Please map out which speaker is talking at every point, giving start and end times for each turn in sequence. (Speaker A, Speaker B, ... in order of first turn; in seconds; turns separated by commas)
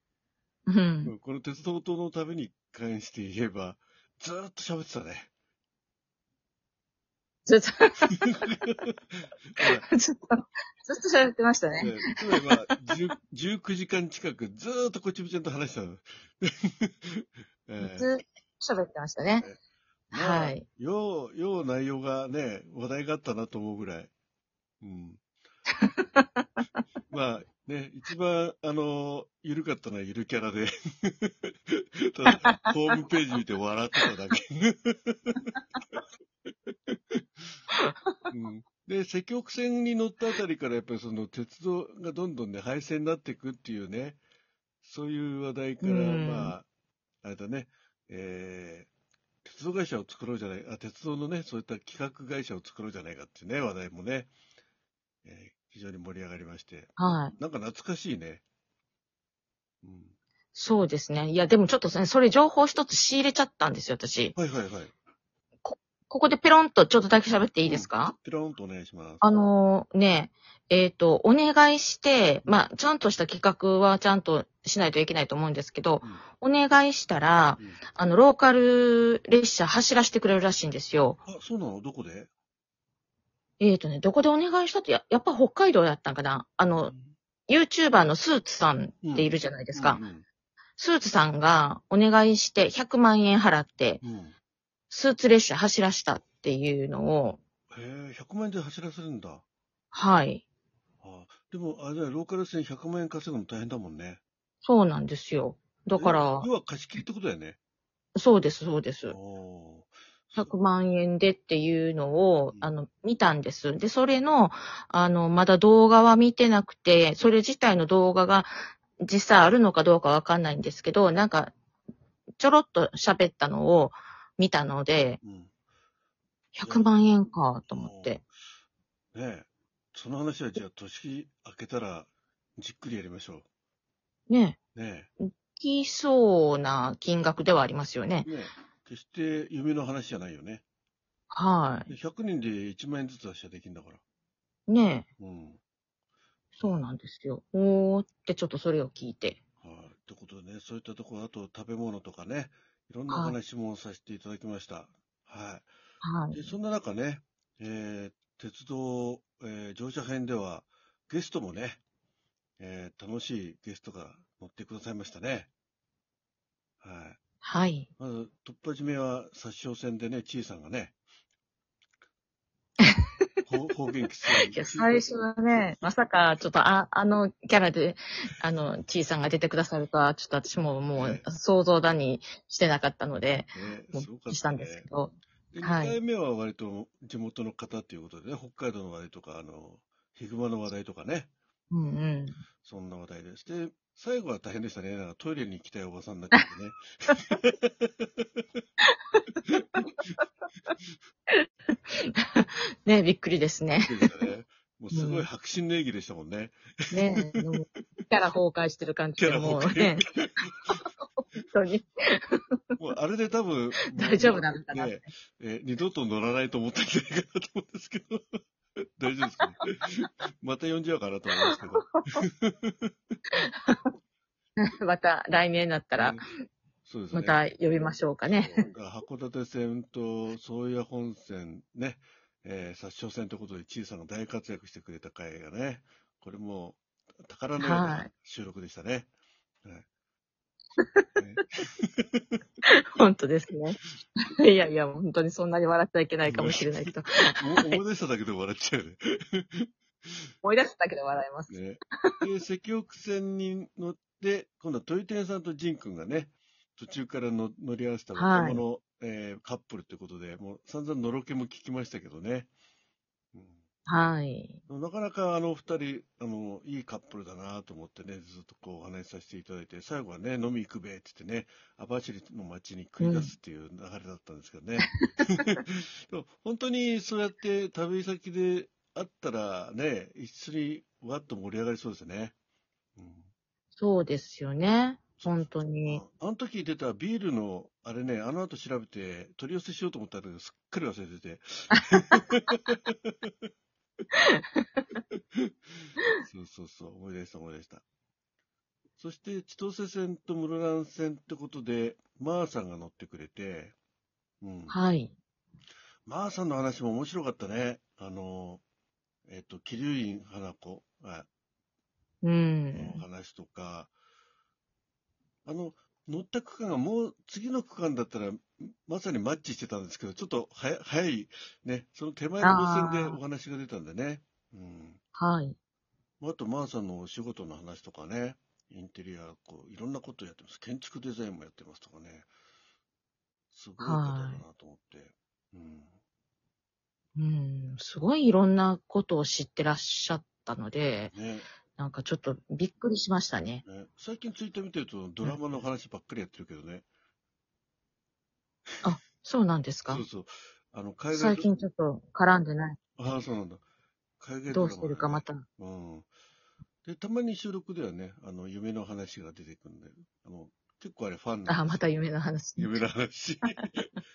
Speaker A: 0.7-1.1, Speaker B: 1.1-5.3, Speaker A: 7.5-8.6, Speaker B: 8.6-8.9, Speaker B: 9.6-9.8, Speaker A: 9.6-12.5, Speaker B: 11.8-18.1, Speaker A: 17.8-19.5, Speaker B: 20.1-24.1, Speaker A: 20.1-20.6, Speaker B: 24.8-25.2, Speaker A: 25.8-26.6, Speaker B: 27.1-35.4, Speaker A: 32.2-33.0, Speaker B: 36.9-37.4, Speaker A: 37.7-38.2, Speaker B: 38.3-44.2, Speaker B: 44.8-46.7, Speaker A: 45.8-46.5, Speaker B: 47.2-48.9, Speaker B: 49.4-54.3, Speaker B: 55.2-58.4, Speaker A: 57.0-57.3, Speaker B: 59.8-60.1, Speaker A: 60.5-64.3, Speaker B: 64.3-64.9, Speaker A: 65.6-68.2, Speaker B: 67.6-69.2, Speaker A: 69.2-81.2, Speaker B: 81.2-82.3, Speaker A: 83.6-86.9, Speaker B: 86.9-87.1, Speaker A: 87.5-90.0, Speaker B: 89.0-90.2, Speaker A: 90.8-94.0, Speaker B: 94.0-94.3, Speaker A: 94.9-97.4, Speaker B: 97.7-99.4, Speaker A: 99.9-100.4, Speaker B: 101.0-104.2, Speaker A: 104.6-106.5, Speaker B: 106.0-107.6, Speaker A: 108.1-109.2, Speaker B: 109.1-110.5, Speaker A: 110.4-121.5, Speaker A: 122.4-125.2, Speaker B: 125.2-125.5, Speaker A: 126.5-128.2, Speaker B: 127.7-128.3, Speaker B: 129.1-133.5, Speaker A: 134.3-134.6, Speaker B: 134.7-135.1, Speaker A: 135.2-138.3, Speaker B: 138.2-140.6, Speaker A: 141.3-141.9, Speaker B: 141.9-144.0, Speaker A: 144.7-145.1, Speaker B: 145.2-145.6, Speaker A: 146.6-149.4, Speaker B: 149.6-155.7, Speaker A: 153.1-153.4, Speaker A: 156.0-156.5, Speaker B: 156.3-161.8, Speaker B: 162.6-165.5, Speaker B: 166.8-167.2, Speaker A: 167.4-167.9, Speaker B: 168.0-170.9, Speaker B: 173.5-175.7, Speaker A: 174.5-186.0, Speaker B: 180.9-181.2, Speaker B: 183.5-184.9, Speaker B: 185.5-191.3, Speaker A: 191.7-192.4, Speaker B: 192.6-198.4, Speaker A: 198.8-199.2, Speaker A: 201.3-204.2, Speaker B: 203.8-207.5, Speaker A: 204.9-205.3, Speaker A: 206.9-210.1, Speaker B: 209.2-210.5, Speaker A: 210.7-212.8, Speaker B: 212.8-218.3, Speaker A: 213.9-215.1, Speaker B: 219.0-222.9, Speaker A: 223.4-223.8, Speaker A: 224.6-226.2, Speaker B: 226.0-226.2, Speaker B: 226.8-227.4, Speaker A: 227.1-228.7, Speaker B: 228.3-239.1, Speaker A: 237.6-238.1, Speaker A: 240.8-241.1, Speaker B: 241.2-242.4, Speaker A: 242.6-243.8, Speaker A: 244.4-247.8, Speaker B: 246.3-250.2, Speaker A: 250.4-252.2, Speaker B: 251.5-262.5, Speaker A: 258.1-258.6, Speaker B: 263.3-263.6, Speaker A: 263.9-264.6, Speaker B: 264.7-282.3, Speaker A: 273.0-273.3, Speaker A: 275.0-275.4, Speaker B: 283.0-283.3, Speaker A: 283.8-286.0, Speaker B: 285.2-293.1, Speaker A: 291.7-292.6, Speaker A: 294.2-294.8, Speaker B: 296.2-297.8, Speaker B: 299.0-303.7, Speaker B: 304.4-304.8, Speaker A: 304.7-305.1, Speaker B: 306.1-308.6, Speaker B: 309.3-311.3, Speaker A: 312.2-313.0, Speaker B: 312.7-313.9, Speaker B: 315.4-325.0, Speaker A: 322.4-323.2, Speaker A: 325.1-325.6, Speaker B: 326.2-332.3, Speaker B: 333.5-335.9, Speaker A: 333.8-334.4, Speaker A: 337.1-341.1, Speaker B: 341.1-341.5, Speaker A: 341.8-343.6, Speaker B: 343.6-346.9, Speaker A: 348.8-350.0, Speaker B: 349.9-351.5, Speaker A: 351.1-352.9, Speaker B: 353.0-353.6, Speaker B: 354.2-356.1, Speaker A: 354.5-355.4, Speaker B: 356.8-361.8, Speaker A: 361.5-362.8, Speaker B: 362.6-363.9